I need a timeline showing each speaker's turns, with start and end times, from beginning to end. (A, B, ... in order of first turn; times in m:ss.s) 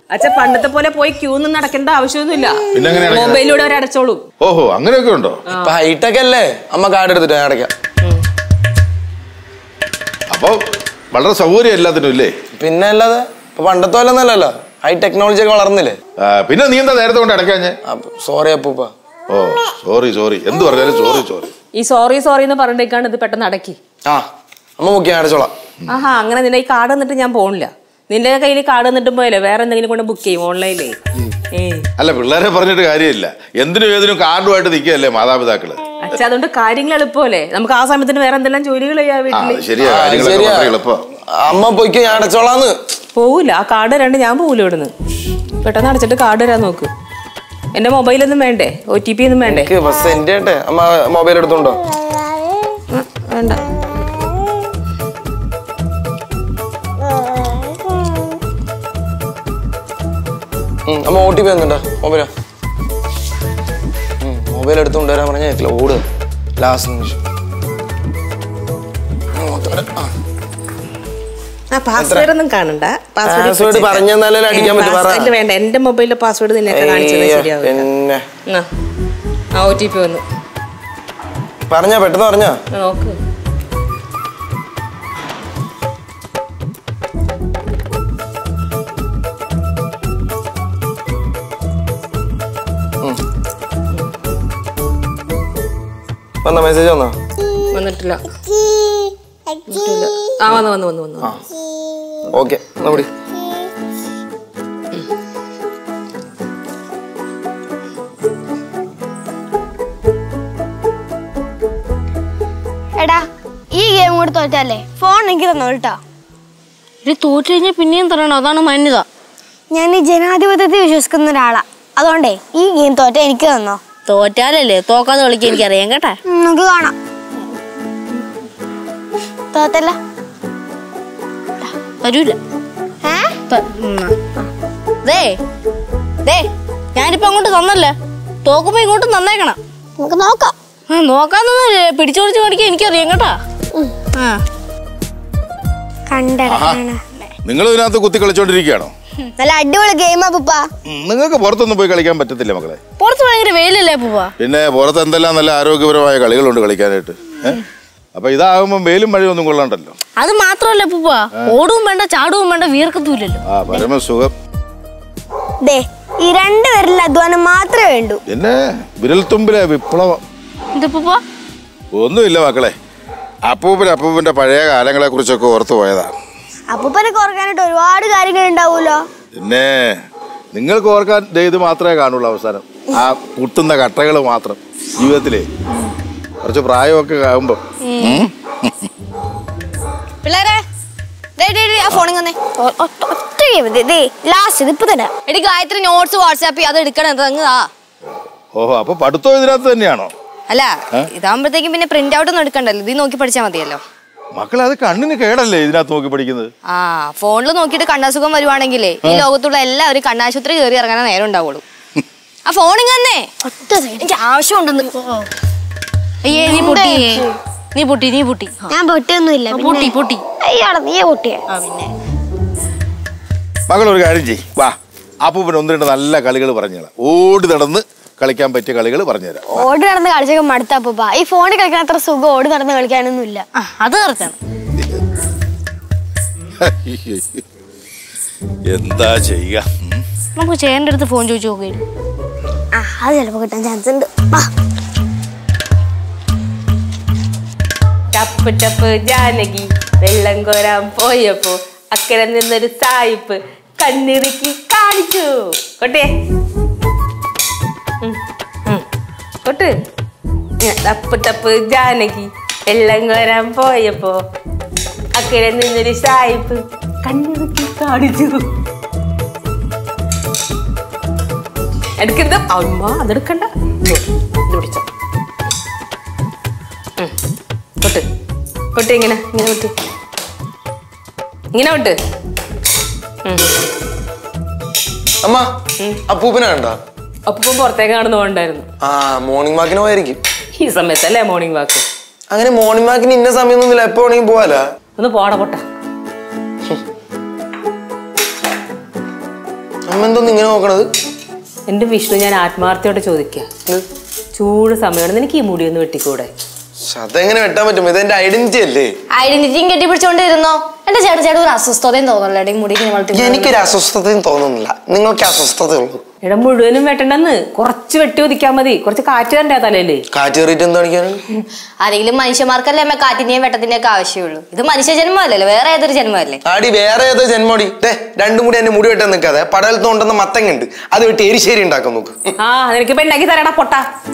0:00.1-0:04.2 A
0:02.7-0:03.4 B
0:04.4-0:05.4 B
0:05.6-0:07.7 C
0:10.3-0:10.6 B
0:11.1-0:12.3 B
0:12.6-0:16.0 C
0:16.2-0:17.8 B
0:17.9-0:18.9 C
0:19.3-0:21.5 B
0:21.8-0:23.8 A
0:24.8-0:25.5 C
0:25.9-0:31.0 A
0:31.6-0:31.9 A
0:32.0-0:35.8 B
0:36.0-0:39.6 A
0:39.3-0:41.0 B
0:39.8-0:40.8 C
0:41.4-0:42.8 C
0:43.2-0:44.9 A
0:45.6-0:46.9 A
0:47.7-0:49.7 A
0:49.5-0:51.8 C
0:52.9-0:53.7 A
1:00.9-1:02.3 C
1:04.2-1:06.0 C
1:06.6-1:07.2 C
1:09.4-1:10.1 C
1:11.7-1:17.9 A
1:12.0-1:12.3 C
1:13.2-1:15.3 C
1:16.7-1:18.2 C
1:19.6-1:20.2 A
1:21.7-1:22.6 C
1:22.7-1:23.2 A
1:36.4-1:37.2 C
1:37.7-1:38.2 A
1:39.7-1:41.3 A
1:42.3-1:43.1 C
1:53.0-1:56.0 D
1:57.0-1:59.1 E
1:59.7-2:03.8 D
2:04.1-2:06.2 E
2:06.3-2:06.9 D
2:09.5-2:10.0 D
2:12.0-2:12.4 E
2:13.0-2:13.3 D
2:13.5-2:14.2 E
2:15.0-2:15.4 E
2:16.2-2:19.6 E
2:20.0-2:20.5 D
2:20.9-2:23.4 E
2:24.2-2:24.4 E
2:26.1-2:27.0 D
2:26.5-2:26.8 B
2:27.4-2:28.9 B
2:29.4-2:30.7 D
2:30.9-2:32.8 B
2:33.0-2:34.3 E
2:34.4-2:37.6 B
2:38.2-2:40.0 B
2:40.2-2:43.4 E
2:43.5-2:44.3 B
2:45.6-2:48.2 D
2:48.3-2:50.2 B
2:50.7-2:51.2 E
2:51.9-2:52.8 B
2:53.5-2:56.1 B
2:56.7-2:59.0 D
2:59.3-3:00.0 B
3:00.5-3:05.5 B
3:06.4-3:08.9 B
3:10.2-3:10.6 F
3:11.4-3:12.4 F
3:12.6-3:15.1 D
3:15.3-3:17.7 F
3:18.6-3:20.1 B
3:20.5-3:23.8 F
3:24.4-3:26.5 B
3:26.7-3:31.6 F
3:32.5-3:33.3 F
3:33.4-3:35.2 D
3:34.1-3:34.9 F
3:36.2-3:38.6 E
3:36.3-3:37.2 D
3:38.7-3:41.4 D
3:39.5-3:40.2 E
3:41.6-3:41.9 E
3:43.7-3:49.6 B
3:49.5-3:53.4 D
3:53.6-3:54.4 E
3:54.8-3:55.0 B
3:56.6-3:57.4 B
3:58.7-4:00.0 B
4:00.4-4:01.8 E
4:02.7-4:04.5 D
4:08.1-4:16.1 A
4:18.0-4:18.8 A
4:19.4-4:19.7 A
4:20.6-4:24.2 A
4:25.2-4:28.5 A
4:32.0-4:34.8 A
4:38.7-4:39.7 A
4:41.5-4:42.0 A
4:43.2-4:43.5 A
4:46.1-4:46.8 C
4:47.3-4:48.7 A
4:48.8-4:50.2 C
4:50.6-4:51.8 A
4:52.3-4:54.6 C
4:55.0-4:55.6 A
4:59.9-5:00.9 C
5:01.7-5:03.5 A
5:04.4-5:06.3 A
5:06.9-5:08.9 C
5:09.2-5:13.6 F
5:13.1-5:16.0 C
5:16.2-5:20.0 A
5:20.1-5:21.2 C
5:21.8-5:26.4 F
5:26.4-5:32.2 C
5:32.4-5:33.8 A